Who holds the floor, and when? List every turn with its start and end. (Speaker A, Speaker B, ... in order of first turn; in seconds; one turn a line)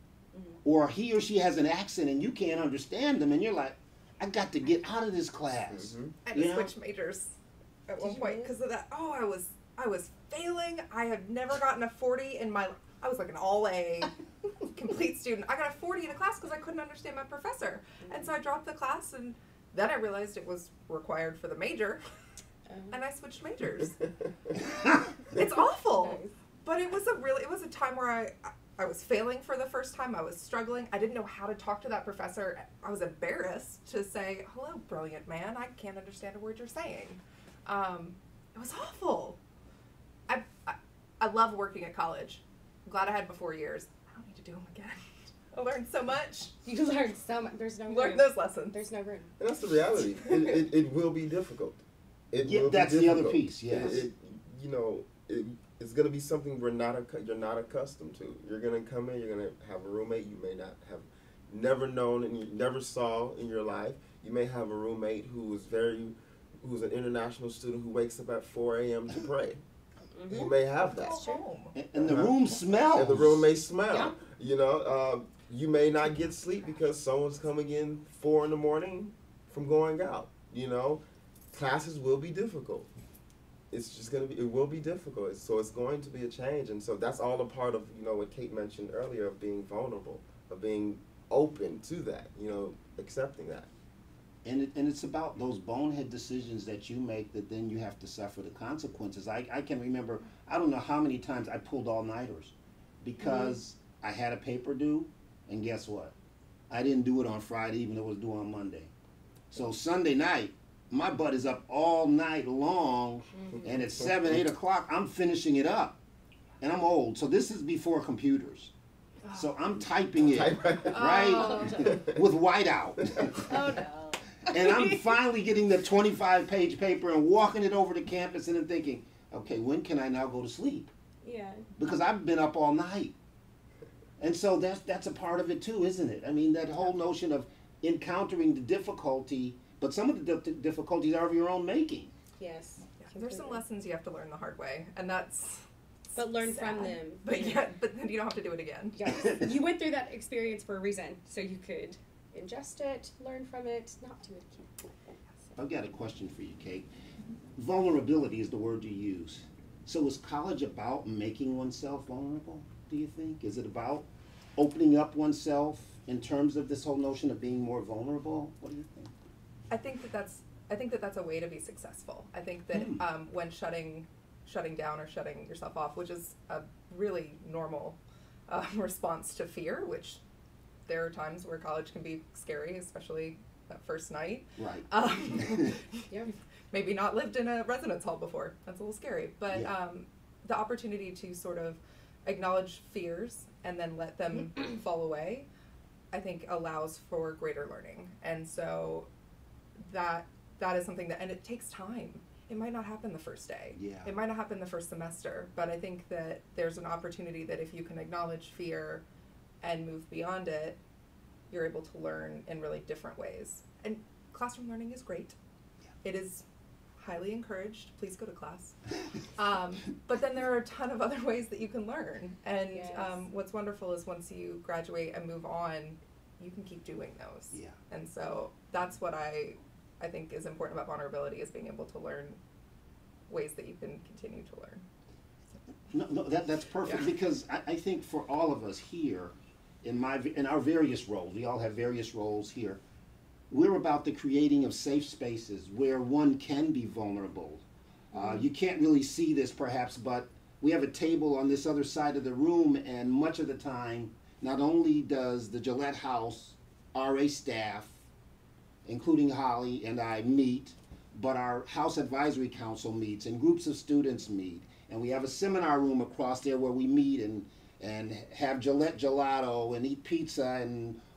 Speaker A: 0.3-0.6
Speaker B: 0.6-6.7
Speaker C: 5.7-6.2
Speaker D: 6.2-14.1
Speaker A: 8.0-8.5
Speaker D: 14.7-22.0
Speaker A: 18.0-18.4
Speaker A: 22.7-23.0
Speaker D: 22.9-24.0
Speaker D: 25.3-39.4
Speaker A: 25.3-26.3
Speaker D: 40.3-46.5
Speaker A: 46.6-49.3
Speaker D: 47.9-48.8
Speaker C: 49.4-69.6
Speaker D: 50.2-50.6
Speaker B: 52.4-54.0
Speaker A: 70.1-71.5
Speaker C: 70.3-71.2
Speaker D: 70.8-71.8
Speaker B: 71.7-73.5
Speaker C: 72.0-72.4
Speaker C: 72.9-82.9
Speaker A: 73.9-74.2
Speaker C: 83.7-93.7
Speaker B: 94.5-106.1
Speaker A: 103.2-103.5
Speaker B: 106.7-108.9
Speaker B: 109.5-116.0
Speaker A: 113.3-113.7
Speaker C: 113.8-114.4
Speaker B: 116.6-118.7
Speaker B: 119.3-123.5
Speaker C: 120.2-121.0
Speaker D: 121.0-121.8
Speaker A: 121.1-122.0
Speaker A: 123.3-125.1
Speaker B: 124.5-130.9
Speaker A: 131.2-131.7
Speaker B: 131.8-133.2
Speaker B: 134.2-142.1
Speaker A: 142.4-143.6
Speaker D: 143.0-145.6
Speaker A: 146.2-147.7
Speaker D: 146.2-149.0
Speaker A: 148.9-154.8
Speaker B: 155.6-156.9
Speaker B: 157.6-169.1
Speaker D: 169.7-180.2
Speaker B: 172.7-173.0
Speaker D: 180.9-186.1
Speaker B: 184.6-184.9
Speaker B: 185.4-185.7
Speaker D: 186.7-195.5
Speaker D: 196.1-199.1
Speaker D: 199.8-209.0
Speaker B: 203.7-204.2
Speaker D: 209.6-210.8
Speaker D: 211.5-215.4
Speaker D: 216.0-216.4
Speaker D: 217.0-218.8
Speaker D: 219.4-232.4
Speaker A: 222.7-223.2
Speaker B: 227.5-227.8
Speaker D: 233.3-234.8
Speaker B: 235.9-242.8
Speaker B: 243.5-258.0
Speaker A: 248.1-248.5
Speaker B: 258.9-271.0